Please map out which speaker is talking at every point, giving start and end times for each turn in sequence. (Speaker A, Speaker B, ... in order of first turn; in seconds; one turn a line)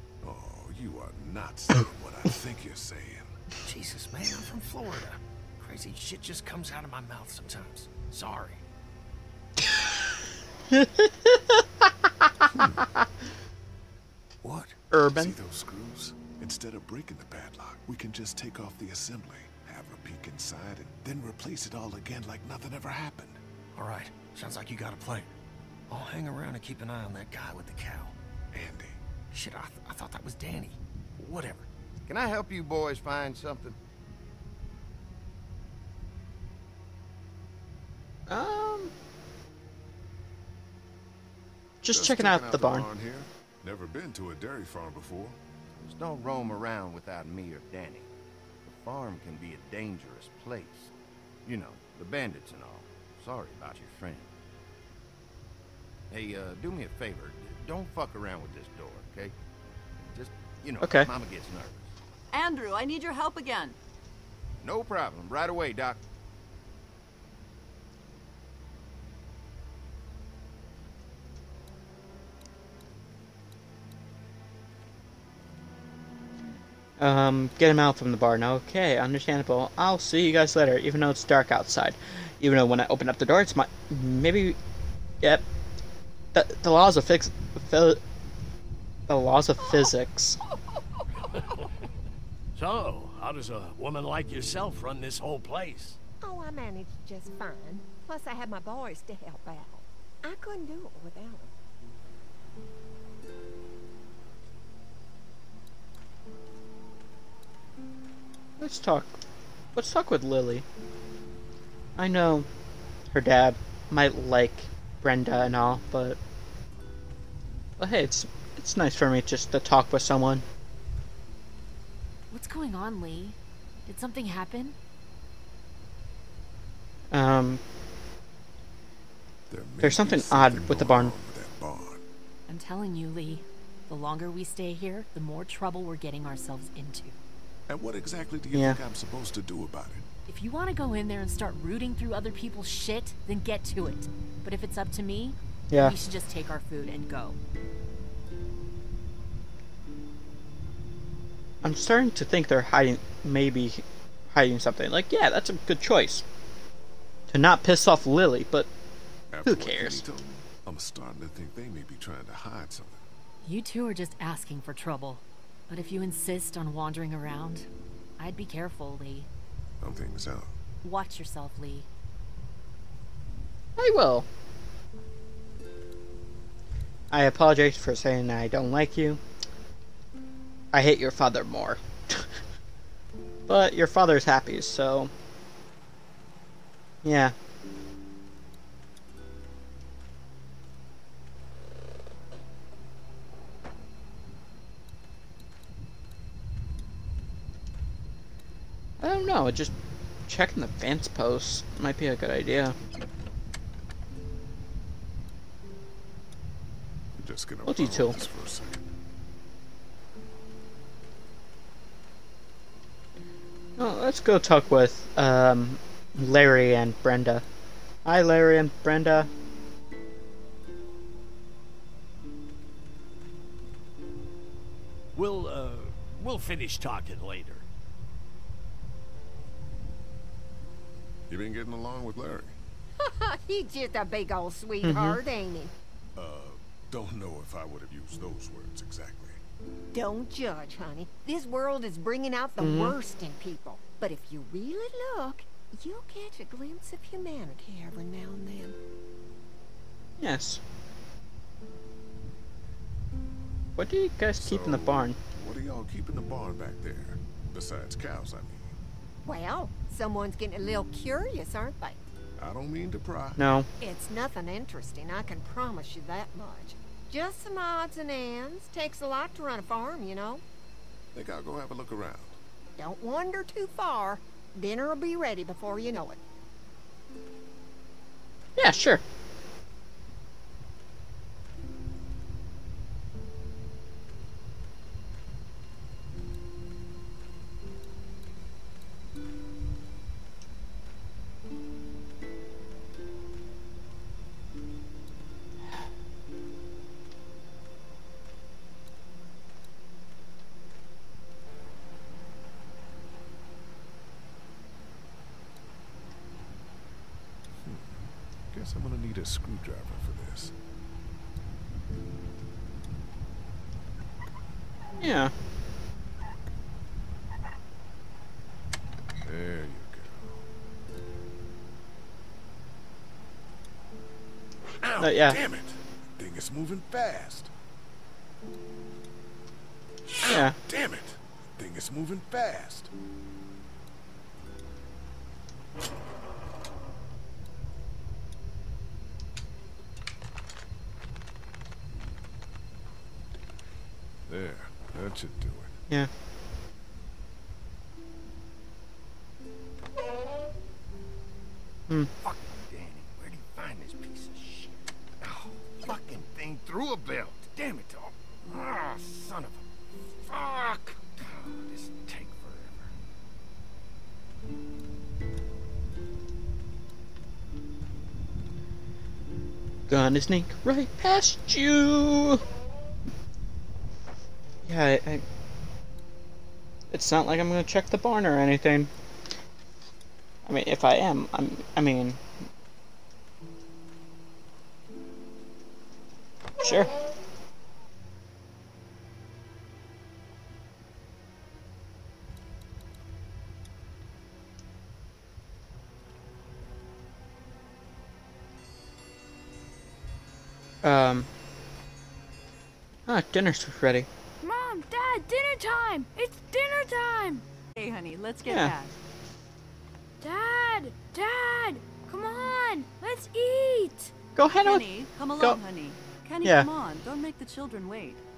Speaker A: 0.2-3.4
Speaker B: 3.6-8.6
Speaker C: 10.7-11.6
Speaker C: 12.2-12.7
Speaker A: 12.6-12.8
Speaker B: 14.4-14.8
Speaker C: 14.9-15.3
Speaker A: 15.1-23.4
Speaker B: 23.7-25.3
Speaker B: 25.9-28.1
Speaker A: 28.5-29.0
Speaker B: 29.3-31.6
Speaker D: 32.1-33.8
Speaker C: 38.3-38.9
Speaker C: 41.8-42.8
Speaker A: 41.9-45.4
Speaker D: 45.8-48.1
Speaker D: 48.7-50.9
Speaker D: 51.4-54.3
Speaker D: 56.1-59.3
Speaker D: 60.0-61.9
Speaker C: 60.8-61.1
Speaker E: 62.3-63.8
Speaker D: 64.6-66.0
Speaker C: 77.0-84.6
Speaker C: 86.3-88.0
Speaker C: 89.1-90.4
Speaker F: 92.5-96.0
Speaker G: 96.2-101.5
Speaker C: 108.6-109.2
Speaker C: 109.7-110.6
Speaker C: 112.0-112.5
Speaker C: 113.1-116.2
Speaker C: 117.8-120.4
Speaker H: 122.3-124.8
Speaker C: 127.1-127.6
Speaker A: 129.5-132.0
Speaker C: 129.8-131.1
Speaker H: 132.5-137.2
Speaker A: 137.7-140.1
Speaker C: 138.5-138.8
Speaker H: 140.3-147.4
Speaker C: 151.6-156.2
Speaker C: 157.3-158.7
Speaker A: 159.3-163.0
Speaker C: 159.4-160.1
Speaker H: 163.4-167.7
Speaker H: 168.2-169.3
Speaker A: 169.8-170.5
Speaker H: 170.8-171.9
Speaker C: 173.8-174.2
Speaker C: 177.1-179.2
Speaker C: 180.7-182.3
Speaker C: 183.5-185.1
Speaker C: 187.0-187.3
Speaker C: 199.0-199.7
Speaker C: 200.3-202.8
Speaker A: 207.2-208.9
Speaker C: 207.7-208.2
Speaker C: 213.8-217.4
Speaker C: 218.0-219.3
Speaker F: 225.1-227.6
Speaker A: 231.3-232.5
Speaker G: 233.0-235.7
Speaker C: 234.8-235.2
Speaker A: 236.2-239.4
Speaker G: 239.9-248.8
Speaker C: 242.6-243.0
Speaker C: 250.2-250.6
Speaker C: 253.8-255.2
Speaker A: 254.4-258.7
Speaker G: 259.2-262.0
Speaker A: 262.4-263.4
Speaker C: 263.4-263.7
Speaker G: 263.8-270.4
Speaker A: 271.1-272.4
Speaker G: 272.8-276.2
Speaker C: 278.6-279.0
Speaker A: 307.6-310.5
Speaker C: 315.0-315.3
Speaker A: 319.2-320.4
Speaker A: 324.8-327.5
Speaker C: 325.0-325.4
Speaker A: 330.2-332.9
Speaker C: 330.2-330.6
Speaker A: 344.3-345.8
Speaker D: 352.2-359.6
Speaker D: 360.2-362.9
Speaker C: 369.9-372.4
Speaker C: 374.6-375.2
Speaker C: 376.9-378.9
Speaker C: 380.4-382.2
Speaker C: 386.6-386.9
Speaker C: 400.8-401.3
Speaker C: 403.1-404.1
Speaker I: 404.4-407.4
Speaker E: 407.8-408.9
Speaker C: 408.4-408.7
Speaker I: 410.2-414.1
Speaker C: 414.4-414.9
Speaker E: 414.6-418.2
Speaker C: 416.4-416.7